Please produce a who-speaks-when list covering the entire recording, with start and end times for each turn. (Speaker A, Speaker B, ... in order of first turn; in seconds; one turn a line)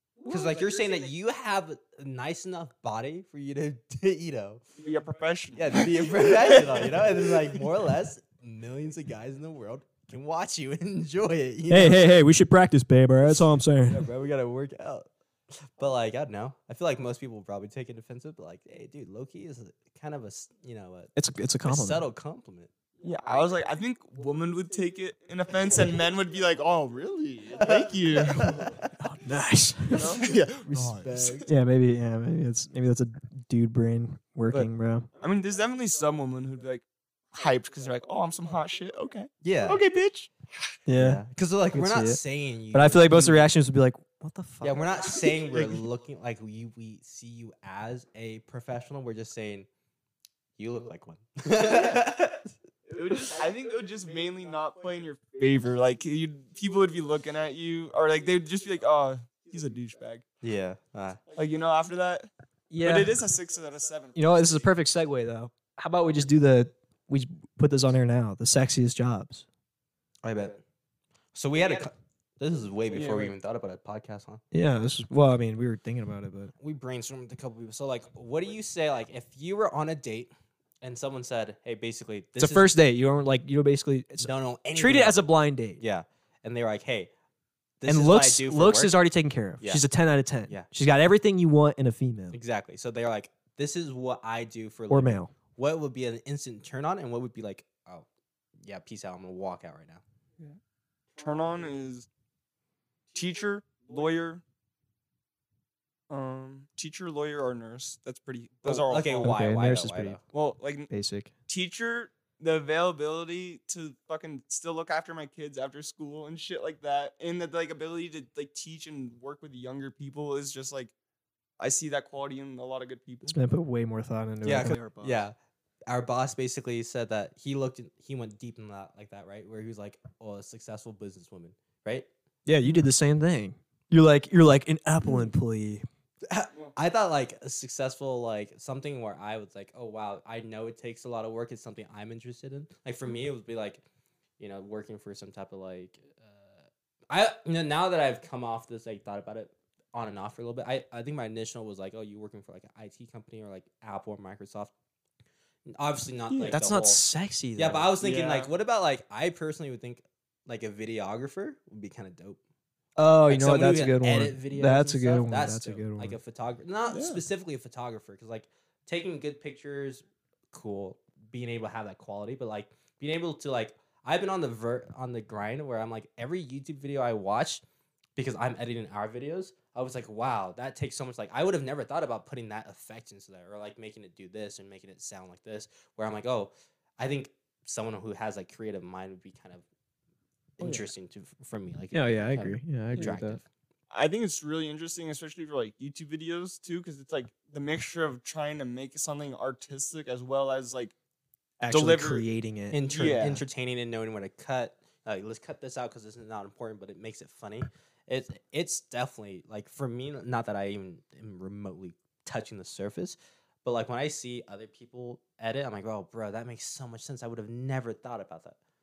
Speaker A: 0.2-4.7
Speaker B: 4.8-7.4
Speaker A: 5.5-12.1
Speaker C: 11.7-14.1
Speaker A: 13.2-22.7
Speaker C: 21.1-22.0
Speaker B: 23.0-28.8
Speaker A: 27.6-28.9
Speaker C: 29.0-30.2
Speaker B: 29.9-31.5
Speaker A: 30.6-31.5
Speaker C: 31.5-35.1
Speaker B: 35.2-40.3
Speaker A: 39.4-39.8
Speaker C: 40.9-42.2
Speaker A: 41.0-43.5
Speaker C: 42.7-45.0
Speaker A: 44.6-49.7
Speaker B: 45.2-45.8
Speaker A: 50.6-52.5
Speaker B: 52.9-60.2
Speaker A: 60.4-61.2
Speaker B: 61.3-64.7
Speaker C: 62.7-63.2
Speaker C: 64.1-69.4
Speaker A: 70.2-70.6
Speaker A: 71.3-74.4
Speaker B: 72.9-73.3
Speaker C: 74.5-76.5
Speaker A: 76.6-82.7
Speaker C: 82.4-85.8
Speaker A: 84.2-87.1
Speaker A: 87.8-89.0
Speaker C: 87.9-92.4
Speaker A: 89.6-89.8
Speaker A: 92.3-98.0
Speaker C: 94.9-95.3
Speaker A: 98.6-100.0
Speaker B: 101.2-102.1
Speaker B: 103.1-104.4
Speaker B: 106.1-109.3
Speaker A: 108.6-110.2
Speaker C: 109.2-110.2
Speaker B: 110.3-110.9
Speaker C: 110.9-111.3
Speaker B: 111.5-120.9
Speaker B: 121.6-123.3
Speaker C: 123.3-125.2
Speaker A: 124.4-125.3
Speaker A: 125.9-132.1
Speaker C: 132.4-135.8
Speaker A: 136.2-143.8
Speaker A: 144.4-154.7
Speaker A: 155.7-157.0
Speaker B: 156.3-156.6
Speaker C: 156.5-157.9
Speaker A: 157.6-162.4
Speaker B: 158.0-158.5
Speaker C: 162.9-166.2
Speaker A: 163.3-177.6
Speaker B: 166.9-167.2
Speaker A: 178.2-189.6
Speaker A: 190.6-193.4
Speaker B: 190.6-190.9
Speaker C: 191.9-193.4
Speaker B: 193.9-200.9
Speaker C: 201.6-202.9
Speaker B: 201.7-202.2
Speaker A: 202.7-218.6
Speaker B: 202.8-203.4